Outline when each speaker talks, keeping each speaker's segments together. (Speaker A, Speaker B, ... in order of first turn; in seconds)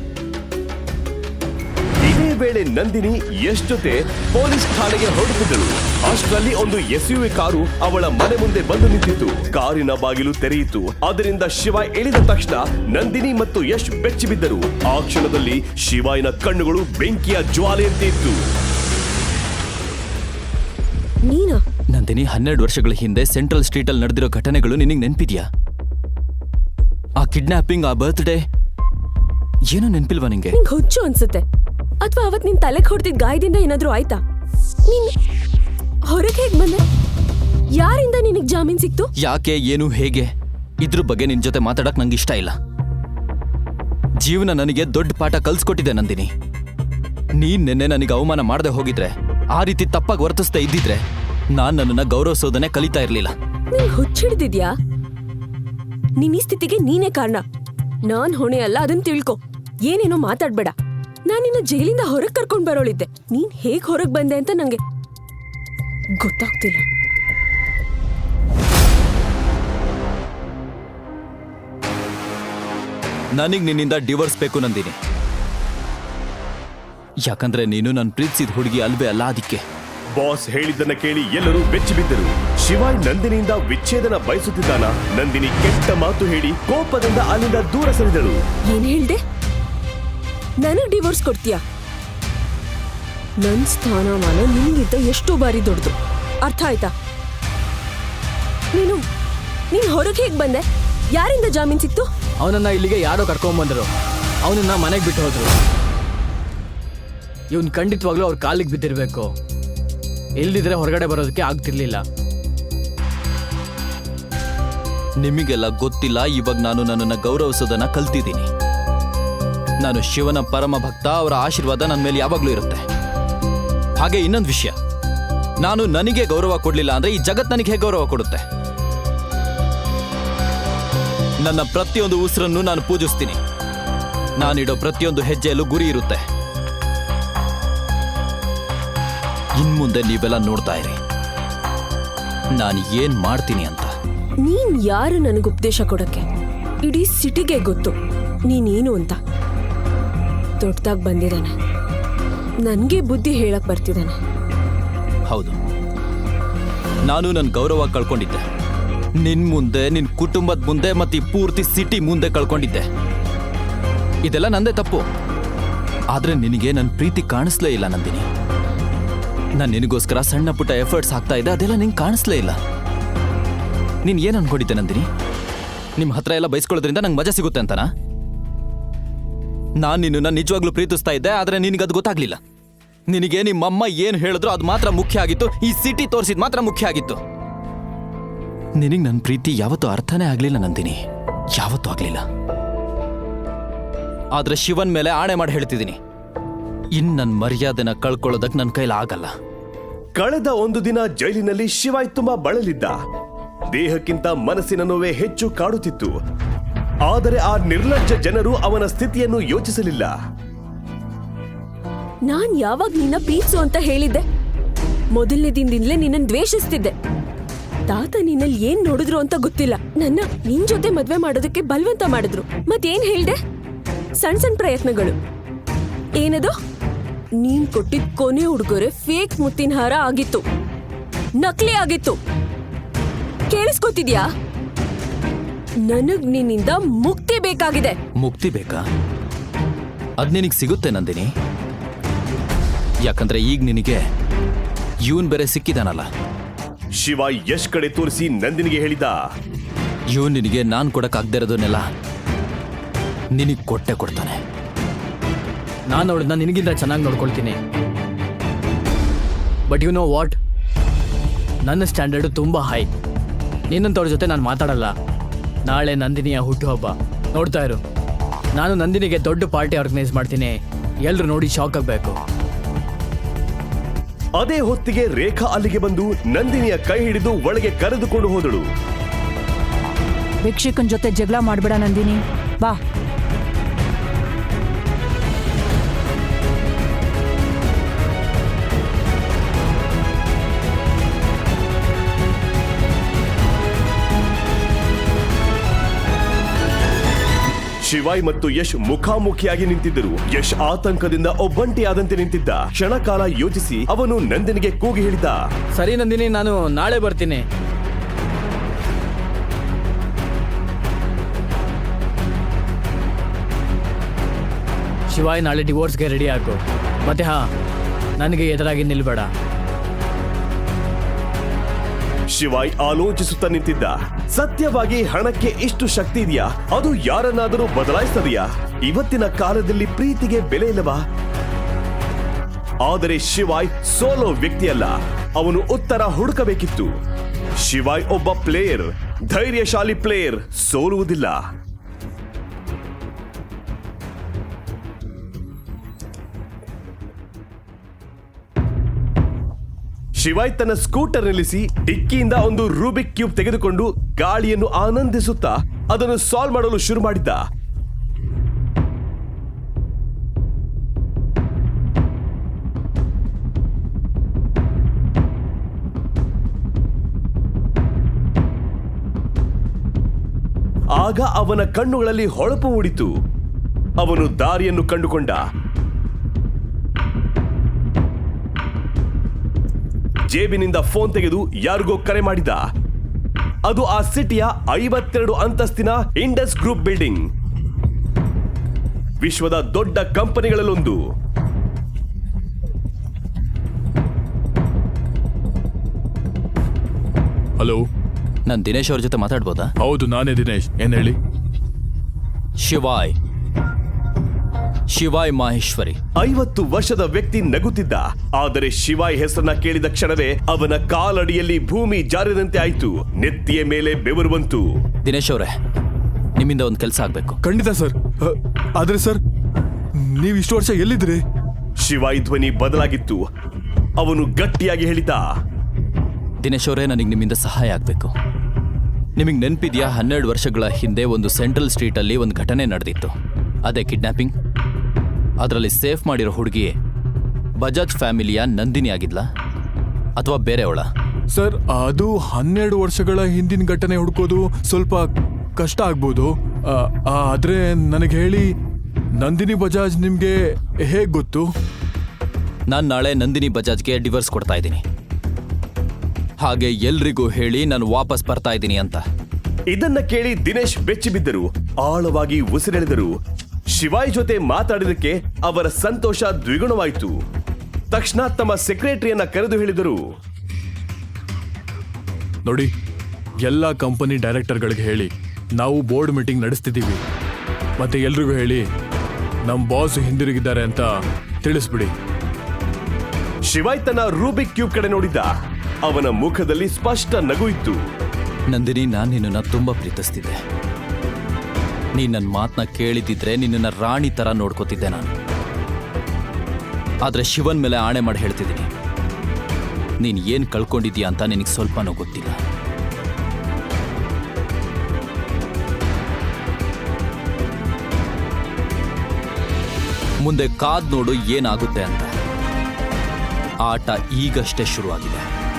Speaker A: 2.1-18.4, 80.2-88.4, 200.2-203.0, 203.7-206.2, 207.1-210.1, 247.0-249.2, 274.4-278.7, 297.9-305.4, 322.3-331.0, 332.9-336.9, 337.6-341.4, 350.2-357.5, 371.0-373.1, 374.0-375.4, 380.3-382.6, 383.7-387.3, 389.2-391.0, 406.2-414.7, 421.8-423.3, 424.0-425.3, 459.7-463.2, 463.7-467.2, 467.9-470.1, 483.5-485.3, 485.9-487.8
Speaker B: 21.2-21.6, 30.5-31.4, 32.0-34.2, 34.9-35.1, 36.1-36.8, 37.8-39.1, 53.7-54.8, 56.2-57.4, 58.1-60.8, 61.3-64.8, 66.2-66.9, 88.7-89.2, 90.6-91.6, 93.4-96.9, 98.7-99.0, 99.7-102.1, 144.4-146.3, 146.8-147.9, 148.5-149.2, 150.6-151.6, 152.6-154.2, 212.3-214.3, 215.1-217.0, 217.9-223.4, 224.2-225.2, 226.2-226.6, 227.4-230.4, 231.4-232.2, 233.5-234.3, 235.8-238.0
Speaker C: 21.9-25.5, 27.2-28.4, 29.7-30.6, 39.2-40.3, 40.8-42.5, 44.2-46.3, 47.4-53.3, 73.3-75.0, 77.2-79.6, 115.2-118.5, 119.8-122.8, 124.0-124.8, 125.6-128.4, 131.4-133.4, 134.4-136.2, 139.6-141.0, 142.5-143.9, 155.3-155.6, 157.1-158.4, 159.2-162.9, 164.2-165.1, 166.1-168.3, 169.6-172.6, 174.0-175.1, 176.0-177.9, 179.8-182.4, 183.1-187.2, 188.8-191.0, 191.6-192.2, 194.3-196.0, 196.9-199.3, 238.2-238.9, 240.2-241.3, 243.1-244.0, 245.1-246.1, 250.1-251.9, 253.3-254.4, 398.5-399.7, 402.6-403.2, 404.9-406.0, 415.1-415.6, 416.4-417.4, 426.4-428.1, 429.2-433.1, 433.6-434.3, 435.4-436.8, 437.6-439.3, 440.2-440.9, 452.7-454.8, 456.4-459.0, 488.5-490.4, 491.9-495.1, 497.0-498.7, 500.0-502.4, 510.2-512.1, 513.6-515.3
Speaker D: 102.4-103.9, 104.5-105.5, 107.5-109.3, 110.4-112.0, 255.9-257.6, 259.7-260.4, 261.6-262.9, 263.7-264.9, 265.7-267.8, 268.6-272.2, 305.8-307.4, 315.1-317.5, 318.2-319.3, 397.6-397.9, 399.8-401.2, 417.4-419.2, 419.9-421.2, 441.3-448.6, 449.2-451.5, 472.4-472.7, 473.4-477.0, 477.8-478.7, 479.5-481.9
Speaker E: 280.4-282.8